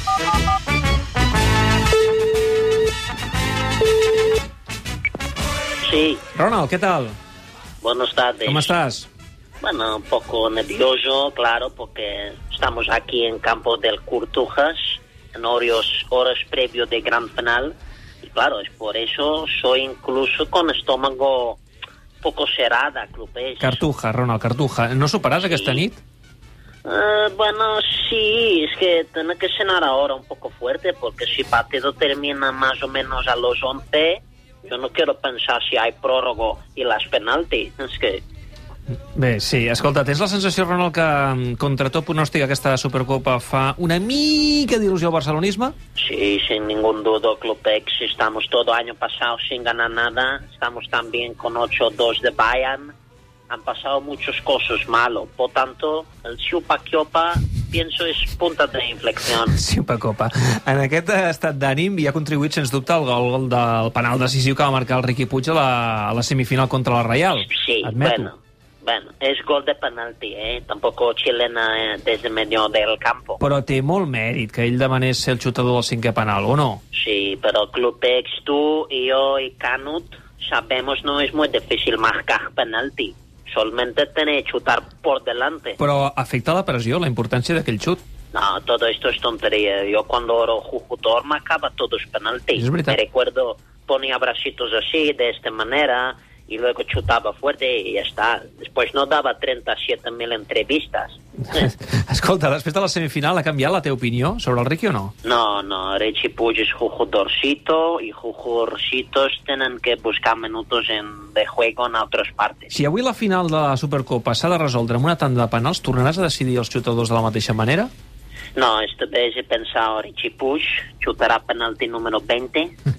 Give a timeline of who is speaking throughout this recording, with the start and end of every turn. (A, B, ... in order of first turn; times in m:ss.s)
0:05.8-0:06.2 A
0:06.4-0:07.2 B
0:07.8-0:08.7 A
0:08.5-0:09.1 B
0:09.6-0:21.6 A
0:22.2-0:23.8 A
0:23.6-0:26.0 B
0:25.4-0:25.8 A
0:26.8-0:38.2 A
0:39.1-0:45.8 B
0:46.0-0:52.9 A
0:53.5-0:59.6 A
0:59.5-1:08.3 B
1:07.3-1:13.4 A
1:13.4-1:16.8 B
1:16.9-1:25.8 A
1:25.8-1:28.0 B
1:28.3-1:41.2 A
1:32.6-1:33.0 B
1:41.5-1:45.1 B
1:45.2-1:52.7 A
1:52.7-1:57.9 B
1:58.6-2:02.8 A